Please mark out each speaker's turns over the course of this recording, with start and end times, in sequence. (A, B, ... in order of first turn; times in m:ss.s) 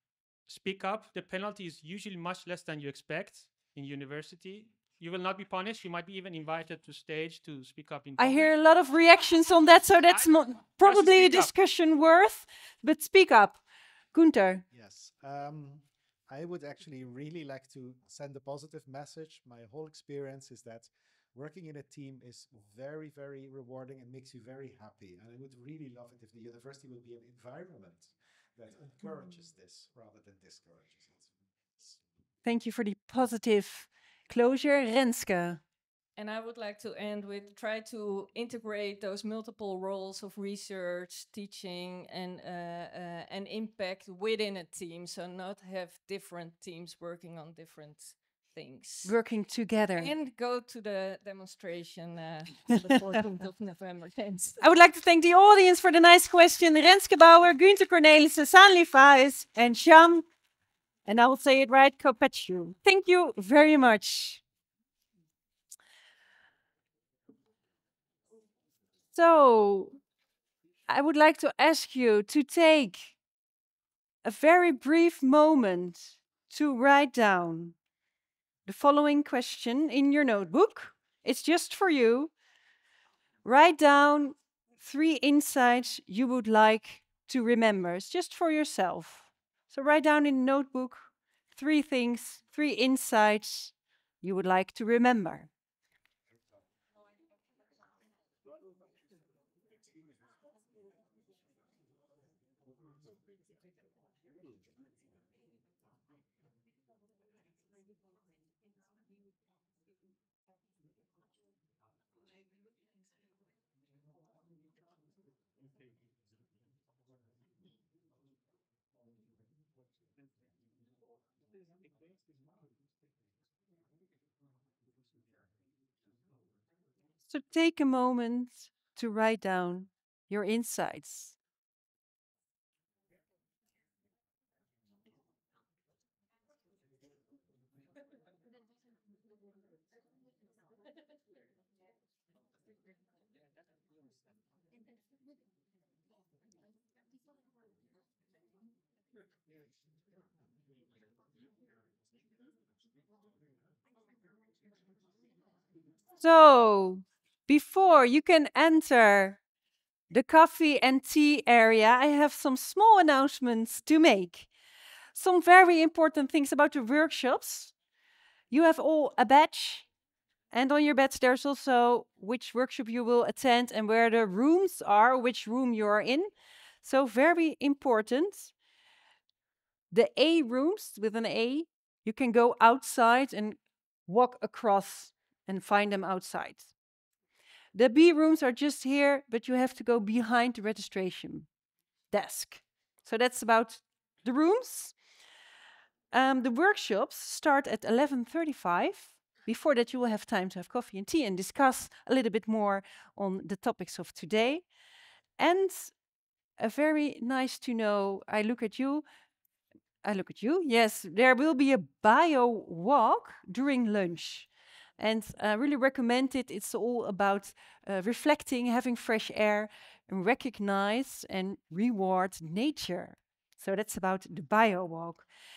0:00.4-0:08.6 A
0:08.2-0:14.6 B
0:10.1-0:11.5 A
0:14.7-0:32.0 C
0:32.4-0:35.6 B
0:36.2-0:49.2 D
0:49.0-0:50.1 B
0:50.0-0:54.6 D
0:54.6-1:00.2 B
1:01.0-1:04.4 B
1:09.1-1:10.0 B
1:10.9-1:13.2 B
1:14.2-1:17.8 B
1:18.6-1:22.3 B
1:23.4-1:35.5 B
2:07.3-2:11.4 B
2:36.2-2:39.4 B
2:40.1-2:44.5 B
2:45.1-2:47.7 B
2:48.5-2:49.8 B
2:50.5-2:56.3 B
2:56.8-2:58.5 B
2:59.9-3:06.7 B
3:07.7-3:11.5 B
3:12.1-3:15.0 B
3:16.1-3:24.6 B
3:25.4-3:25.9 B
3:26.6-3:29.0 B
3:30.0-3:45.3 B